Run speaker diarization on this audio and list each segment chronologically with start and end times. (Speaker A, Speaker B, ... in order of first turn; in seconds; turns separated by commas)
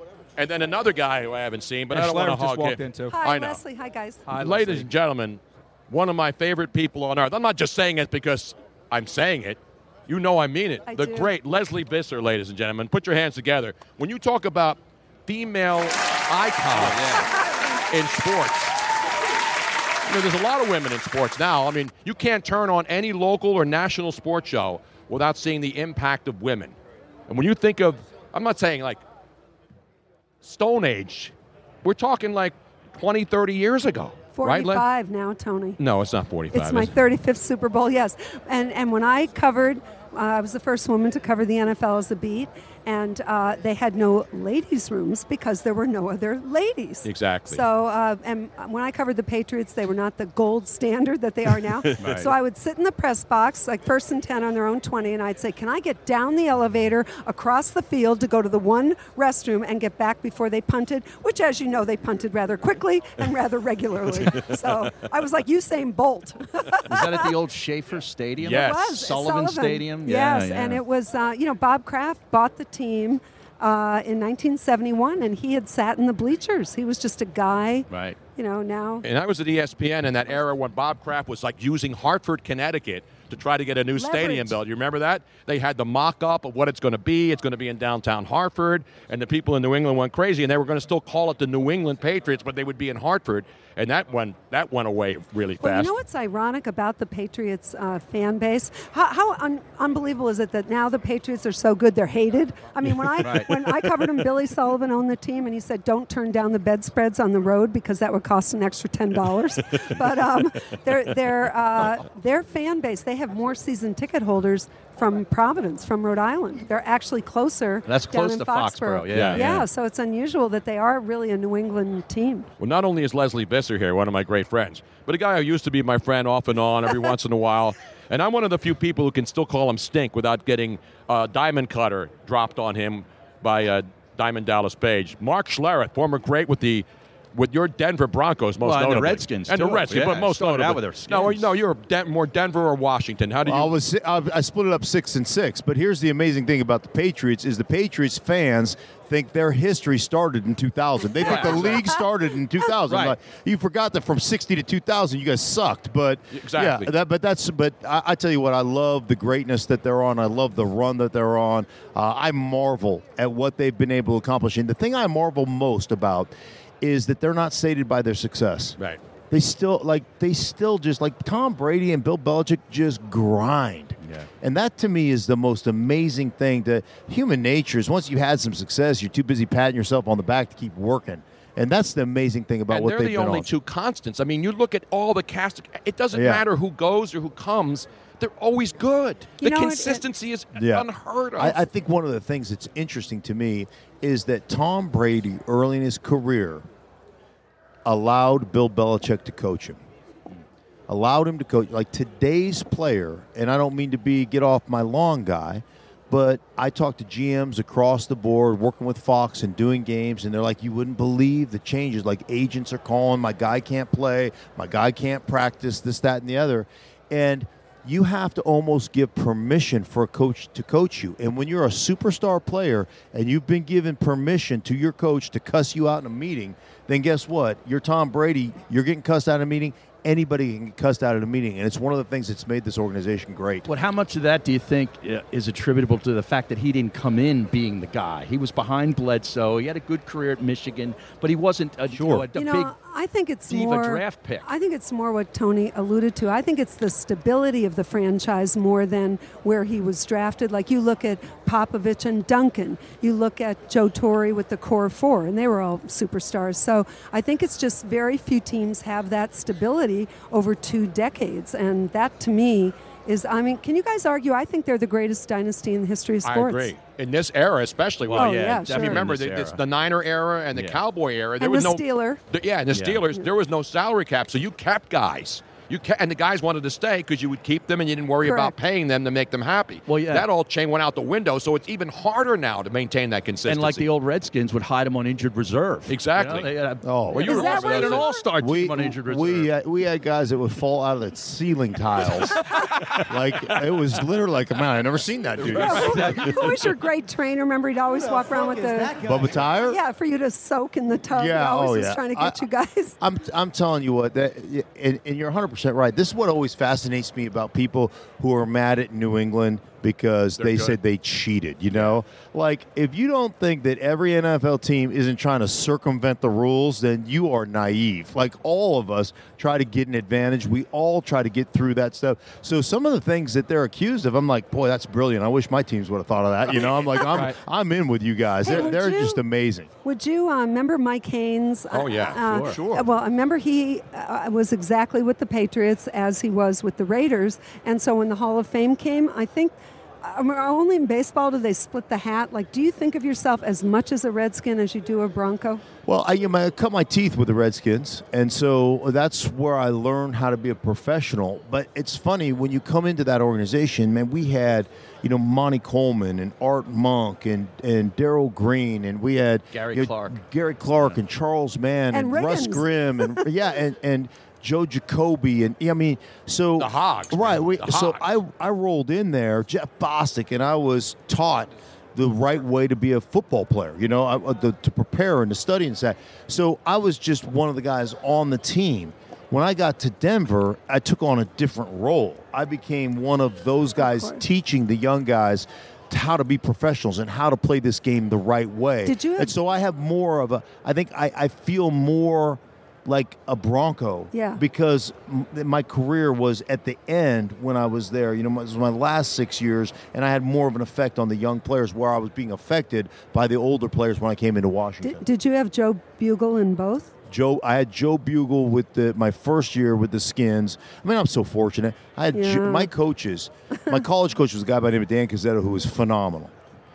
Speaker A: 0.4-3.6, Speaker B: 1.9-3.2, Speaker C: 3.1-4.2, Speaker B: 4.3-4.9, Speaker A: 4.4-17.2, Speaker C: 10.9-11.3, Speaker D: 16.7-17.3, Speaker A: 17.9-18.8, Speaker A: 20.0-26.8, Speaker A: 27.3-29.0, Speaker A: 30.4-31.3, Speaker A: 31.8-34.9, Speaker C: 34.3-35.8, Speaker A: 35.8-36.9, Speaker C: 36.5-67.3, Speaker A: 47.0-47.6, Speaker D: 52.0-52.3, Speaker D: 66.9-70.8, Speaker A: 68.4-68.9, Speaker C: 68.5-79.0, Speaker D: 77.9-78.2, Speaker A: 79.0-95.9, Speaker C: 84.0-84.6, Speaker C: 95.6-122.5, Speaker D: 103.2-103.5, Speaker D: 117.8-119.7, Speaker A: 119.1-119.5, Speaker A: 122.6-143.7, Speaker D: 138.6-141.5, Speaker E: 143.4-168.8, Speaker D: 151.2-151.8, Speaker D: 152.9-153.1, Speaker A: 156.3-156.9, Speaker E: 169.3-183.5, Speaker D: 174.0-174.3, Speaker A: 182.7-191.6, Speaker E: 186.1-186.4, Speaker C: 189.4-190.0, Speaker E: 190.5-196.6, Speaker E: 197.8-199.8, Speaker E: 200.9-233.7, Speaker D: 233.7-242.7, Speaker B: 242.0-242.2, Speaker C: 242.3-266.7, Speaker D: 243.5-244.5, Speaker A: 266.2-283.9, Speaker D: 268.1-269.6, Speaker C: 268.1-269.0, Speaker D: 270.5-270.8, Speaker C: 271.4-272.2, Speaker D: 272.7-273.0, Speaker C: 278.2-278.5, Speaker D: 279.9-280.2, Speaker D: 283.5-289.5, Speaker A: 285.9-286.5, Speaker E: 286.8-292.4, Speaker C: 287.1-288.1, Speaker A: 287.3-288.1, Speaker E: 293.1-296.2, Speaker D: 295.4-296.6, Speaker C: 295.5-303.0, Speaker E: 299.0-299.8, Speaker E: 301.1-302.4, Speaker E: 303.0-329.7, Speaker A: 310.4-310.8, Speaker C: 328.4-329.2, Speaker C: 329.8-345.6, Speaker A: 331.7-332.2, Speaker D: 332.2-332.9, Speaker E: 345.9-405.0, Speaker D: 359.5-360.2, Speaker C: 361.9-363.2, Speaker A: 366.6-368.0, Speaker C: 383.8-384.2, Speaker C: 388.8-389.4, Speaker C: 394.1-394.4, Speaker C: 404.8-406.9, Speaker E: 407.1-416.3, Speaker C: 412.1-412.7